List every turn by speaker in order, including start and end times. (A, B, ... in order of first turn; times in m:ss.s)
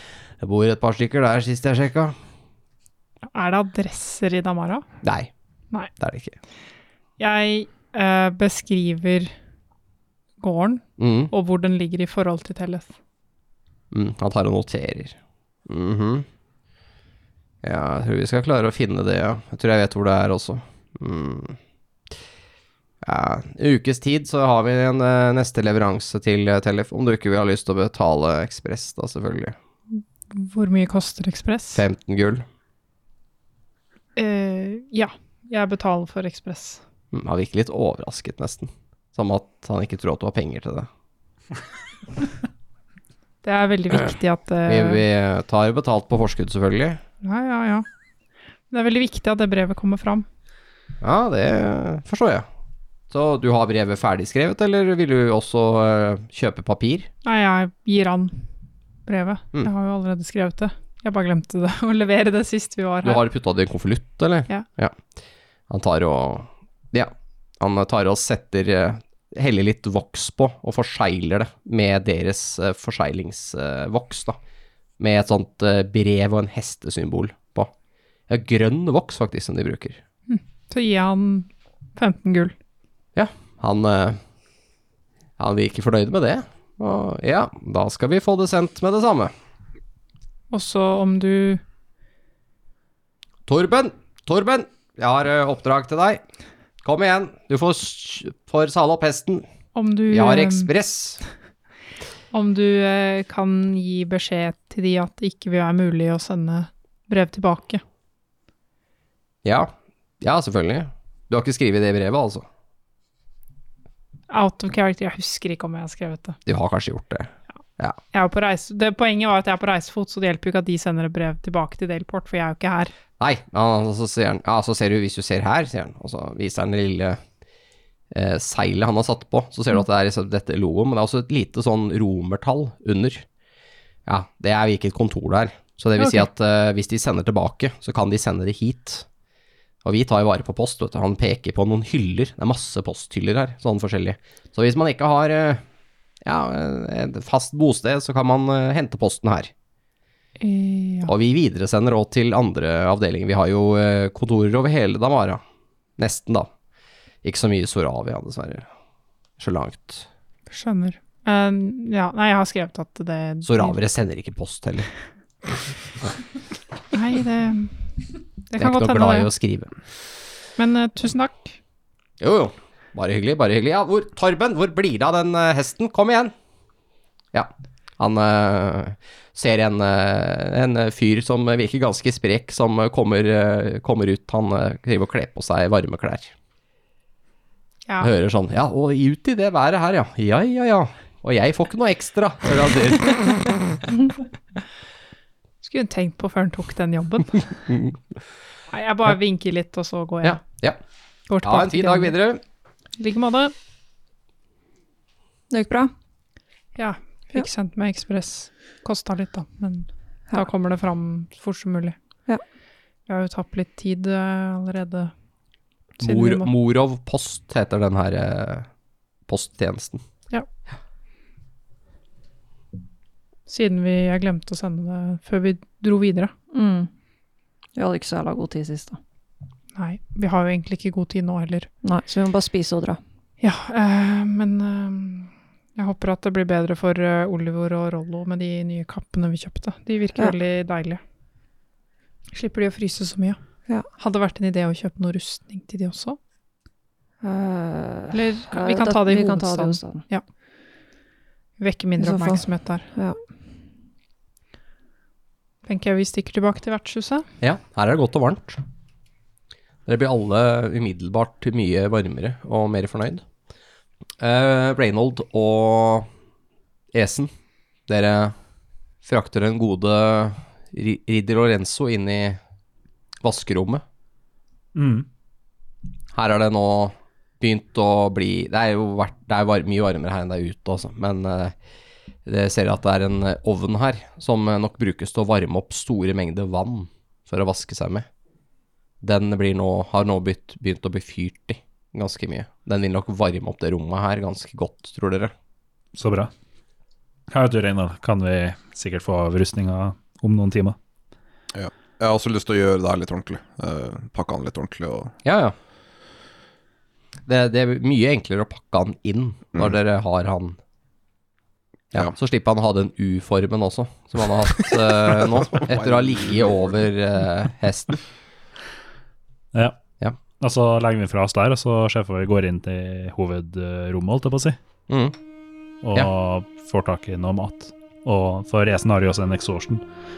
0:00.4-0:02.2 A
0:03.3-0:04.8 B
0:05.0-0:05.3 A
0:06.0-0:06.4 A
0:07.2-0:09.3 B
0:10.4-0:12.9 B
0:11.0-0:11.3 A
0:13.9-0:16.3 A
0:17.6-0:21.6 A
0:23.0-0:29.6 A
0:30.0-0:31.8 B
0:31.7-0:32.5 A
0:34.2-0:36.8 B
0:37.1-0:40.9 A
0:43.4-0:45.0 B
0:44.7-0:47.0 A
0:47.2-0:47.8 B
0:48.7-0:50.3 B
0:51.0-0:52.5 A
0:53.1-0:57.1 A
0:57.2-0:58.4 B
0:59.1-1:03.2 B
1:03.0-1:05.0 A
1:05.7-1:14.4 A
1:15.0-1:17.7 A
1:18.3-1:20.0 A
1:20.3-1:22.5 B
1:23.2-1:24.2 A
1:25.4-1:29.3 A
1:30.5-1:31.6 B
1:33.5-1:36.2 A
1:36.8-1:39.5 A
1:39.8-1:40.7 B
1:40.1-1:41.2 A
1:42.3-1:47.8 B
1:49.4-1:52.5 A
1:54.3-1:56.4 B
1:56.5-1:58.0 A
1:58.1-2:02.9 B
2:03.2-2:07.2 A
2:08.1-2:13.2 A
2:14.1-2:19.1 A
2:19.8-2:25.6 A
2:26.2-2:29.5 A
2:30.4-2:31.1 B
2:31.1-2:35.4 A
2:36.0-2:36.5 A
2:37.2-2:38.7 A
2:39.4-2:40.1 A
2:40.5-2:43.8 B
2:43.4-2:44.9 A
2:46.9-2:47.7 B
2:48.5-2:49.3 B
2:48.6-2:49.7 A
2:50.6-2:51.6 B
2:52.2-2:56.3 A
2:57.3-3:06.3 A
3:08.0-3:13.6 A
3:15.6-3:17.6 B
3:17.7-3:18.0 A
3:18.7-3:20.4 B
3:20.2-3:20.8 A
3:21.3-3:22.2 B
3:21.4-3:22.4 A
3:23.0-3:23.5 B
3:25.5-3:25.9 C
3:26.8-3:32.0 B
3:33.1-3:35.1 B
3:36.0-3:38.7 A
3:36.0-3:36.5 B
3:39.3-3:40.0 A
3:43.5-3:46.3 B
3:46.5-3:46.9 C
3:47.8-3:49.0 C
3:49.8-3:51.7 B
3:51.8-3:53.0 C
3:53.4-4:01.0 B
4:02.3-4:03.4 B
4:04.0-4:06.2 B
4:07.2-4:10.0 C
4:08.1-4:10.2 B
4:11.6-4:12.9 B
4:12.0-4:13.2 C
4:15.7-4:17.2 B
4:17.4-4:18.6 A
4:19.9-4:23.2 A
4:24.2-4:26.1 A
4:26.9-4:27.3 A
4:27.9-4:28.4 A
4:29.0-4:32.4 A
4:33.2-4:33.8 A
4:34.8-4:35.1 D
4:36.1-4:41.6 A
4:42.2-4:48.1 A
4:49.0-4:55.3 A
4:55.9-4:56.3 D
4:57.3-5:00.8 D
5:01.5-5:05.1 E
5:05.2-5:05.6 A
5:07.3-5:10.6 A
5:11.9-5:18.0 A
5:15.5-5:16.3 E
5:20.4-5:24.6 D
5:24.9-5:25.2 A
5:25.8-5:29.8 D